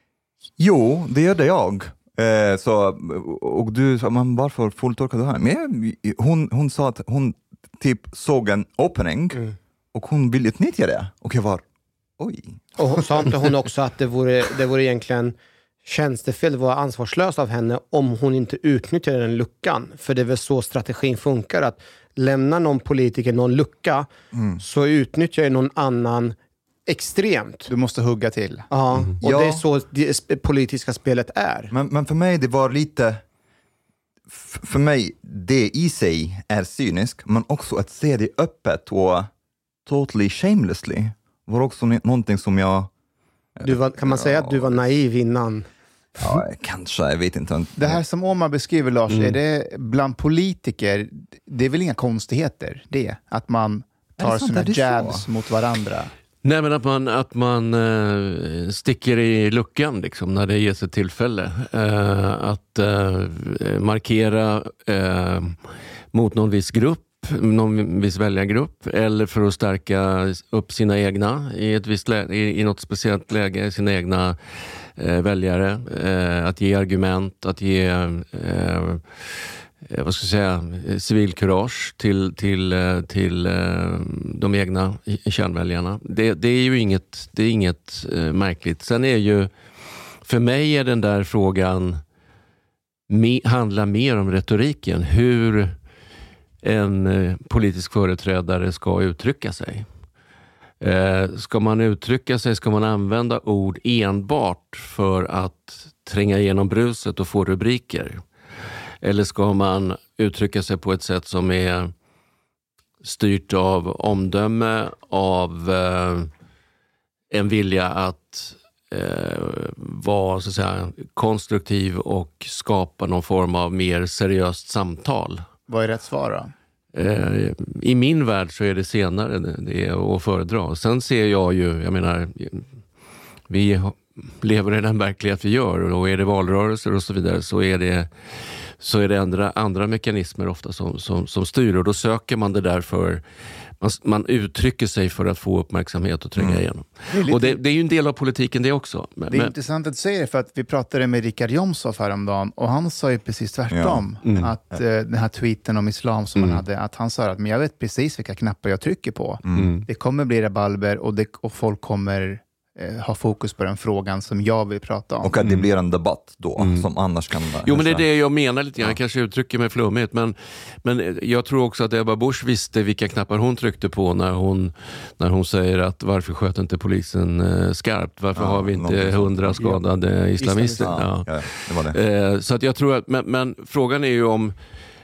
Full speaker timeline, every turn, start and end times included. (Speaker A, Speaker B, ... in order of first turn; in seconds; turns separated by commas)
Speaker A: 0.6-11.6, Speaker A: 12.2-12.6, Speaker B: 12.8-27.7, Speaker A: 24.3-24.6, Speaker C: 27.7-28.7, Speaker B: 28.7-31.7, Speaker A: 29.2-29.6, Speaker A: 31.7-33.2, Speaker A: 34.3-39.3, Speaker A: 39.9-42.9, Speaker A: 43.6-44.8, Speaker B: 43.6-45.7, Speaker A: 46.2-48.0, Speaker C: 47.8-56.1, Speaker D: 49.1-49.4, Speaker A: 54.2-55.3, Speaker D: 56.4-65.6, Speaker D: 66.1-89.5, Speaker D: 90.2-92.0, Speaker D: 93.1-95.8, Speaker D: 96.6-99.9, Speaker D: 100.8-108.2, Speaker D: 109.0-111.9, Speaker D: 113.0-116.3, Speaker D: 117.3-125.4, Speaker C: 125.7-126.5, Speaker D: 126.9-132.7, Speaker D: 133.5-143.2, Speaker D: 143.8-149.5, Speaker A: 146.4-146.6, Speaker C: 147.3-147.5, Speaker C: 149.3-165.3, Speaker A: 153.7-154.1, Speaker D: 154.2-154.5, Speaker D: 156.3-156.6, Speaker A: 159.4-159.7, Speaker D: 159.5-159.8, Speaker A: 165.2-168.0, Speaker D: 165.4-165.7, Speaker D: 166.6-166.8, Speaker D: 167.6-184.5, Speaker A: 178.3-179.8, Speaker B: 180.4-180.9, Speaker A: 180.8-182.0